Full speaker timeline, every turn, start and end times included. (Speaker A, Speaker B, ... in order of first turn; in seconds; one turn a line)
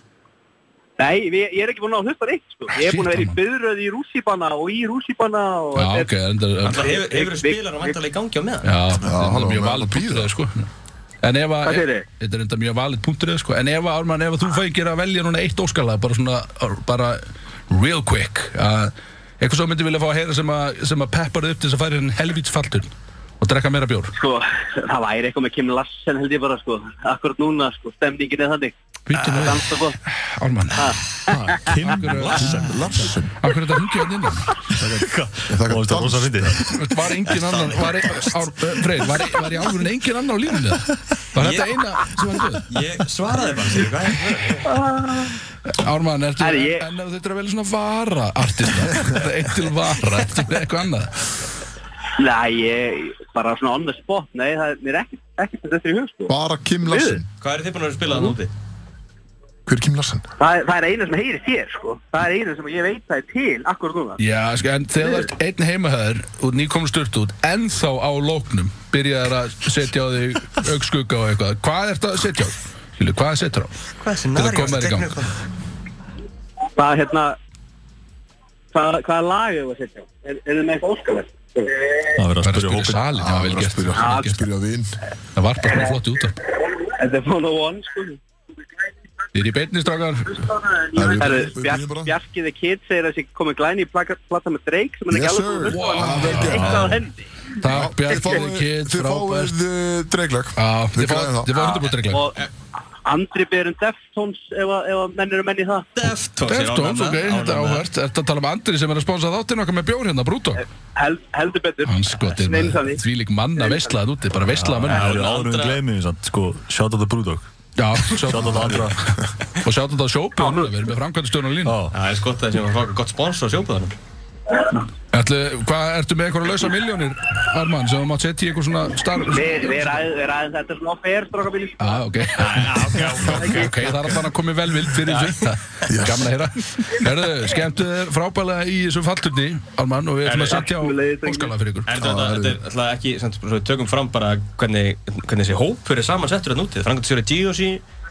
Speaker A: 1.0-6.1
Speaker B: 2.7-3.4
Speaker B: 5.8-7.0
Speaker C: 6.6-8.7
Speaker A: 6.7-8.0
Speaker B: 8.6-10.7
Speaker D: 9.0-10.3
Speaker B: 11.2-24.1
Speaker A: 11.6-12.1
Speaker A: 24.2-30.0
Speaker B: 29.1-34.5
Speaker A: 30.8-31.6
Speaker E: 31.3-33.1
Speaker D: 32.4-33.4
Speaker D: 34.7-36.6
Speaker E: 34.8-36.7
Speaker B: 36.6-42.7
Speaker C: 37.2-38.5
Speaker C: 41.4-41.8
Speaker C: 42.7-44.7
Speaker A: 44.6-45.4
Speaker B: 45.7-51.2
Speaker A: 46.4-46.9
Speaker A: 52.2-56.3
Speaker D: 56.3-57.3
Speaker A: 56.9-57.2
Speaker C: 57.4-58.5
Speaker D: 59.7-60.3
Speaker A: 60.4-64.2
Speaker B: 64.2-73.7
Speaker A: 65.0-65.3
Speaker C: 74.0-75.3
Speaker B: 74.3-75.2
Speaker A: 76.8-77.4
Speaker A: 78.7-82.2
Speaker E: 82.2-83.0
Speaker B: 82.4-84.5
Speaker D: 83.2-85.0
Speaker B: 85.4-86.4
Speaker A: 86.8-88.2
Speaker B: 89.3-90.5
Speaker A: 90.4-97.2
Speaker D: 91.0-92.1
Speaker D: 95.1-96.9
Speaker B: 95.7-97.0
Speaker E: 96.3-97.0
Speaker B: 97.6-99.6
Speaker D: 97.7-101.5
Speaker B: 100.6-102.3
Speaker A: 101.6-102.5
Speaker A: 103.0-105.9
Speaker C: 106.0-107.8
Speaker B: 106.5-110.6
Speaker A: 111.0-113.0
Speaker B: 111.8-115.1
Speaker A: 113.6-113.9
Speaker E: 114.5-117.5
Speaker C: 114.9-115.8
Speaker B: 117.8-121.8
Speaker E: 118.1-119.1
Speaker A: 120.4-120.7
Speaker E: 121.7-122.0
Speaker C: 121.9-124.0
Speaker B: 125.1-130.0
Speaker A: 129.2-132.0
Speaker B: 131.8-141.9
Speaker C: 132.4-134.2
Speaker A: 133.4-133.7
Speaker C: 134.9-135.5
Speaker D: 135.9-136.3
Speaker C: 140.2-140.6
Speaker A: 140.5-141.5
Speaker C: 141.9-147.8
Speaker D: 142.0-142.6